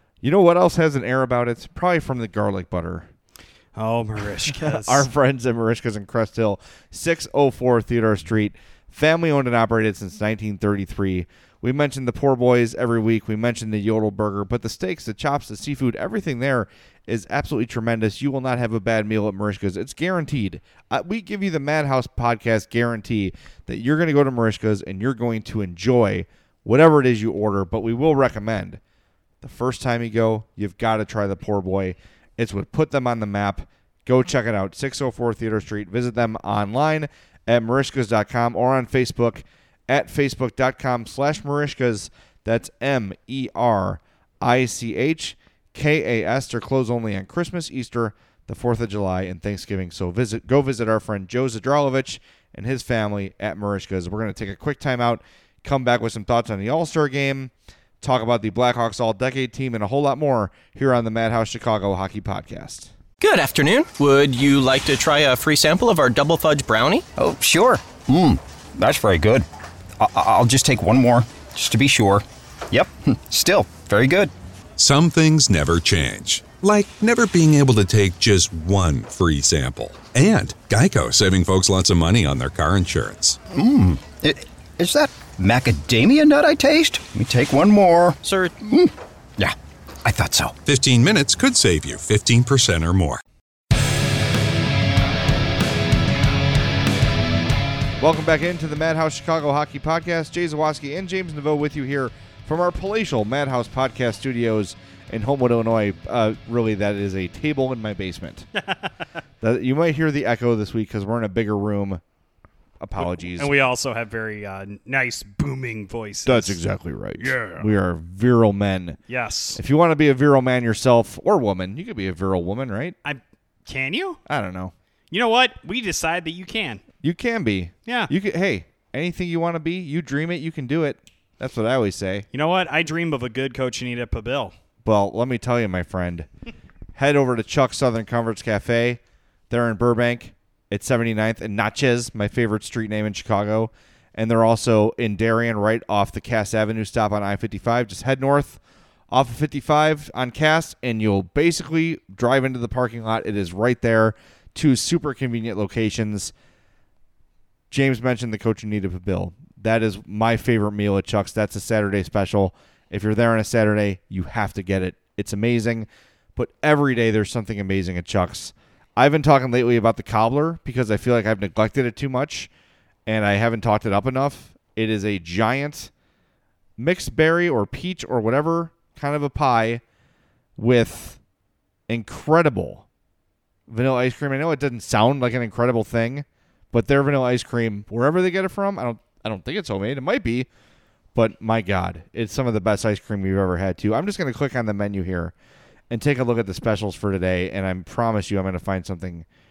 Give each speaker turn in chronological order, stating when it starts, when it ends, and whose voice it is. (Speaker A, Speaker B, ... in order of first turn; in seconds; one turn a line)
Speaker A: 0.2-3.1
Speaker B: 3.8-5.1
Speaker A: 4.4-28.8
Speaker A: 29.4-62.9
Speaker C: 63.2-67.0
Speaker D: 67.2-69.5
Speaker D: 70.0-74.3
Speaker E: 74.8-83.4
Speaker D: 83.5-90.6
Speaker C: 88.2-88.5
Speaker E: 90.6-93.2
Speaker A: 98.0-108.5
Speaker B: 108.6-108.9
Speaker A: 109.4-112.0
Speaker A: 112.8-113.5
Speaker B: 113.0-116.6
Speaker A: 116.2-119.0
Speaker B: 117.2-117.7
Speaker B: 119.1-119.6
Speaker A: 119.5-123.0
Speaker B: 123.0-124.2
Speaker A: 124.2-124.7
Speaker B: 125.1-126.8
Speaker A: 127.0-132.2
Speaker B: 127.8-128.1
Speaker B: 132.3-134.5
Speaker A: 134.8-136.3
Speaker A: 136.9-156.3
Speaker A: 157.7-172.5
Speaker A: 173.1-175.9
Speaker A: 176.8-179.8
Speaker A: 180.6-181.2
Speaker A: 181.9-182.8
Speaker A: 183.7-190.5
Speaker A: 191.1-195.3
Speaker A: 195.9-199.2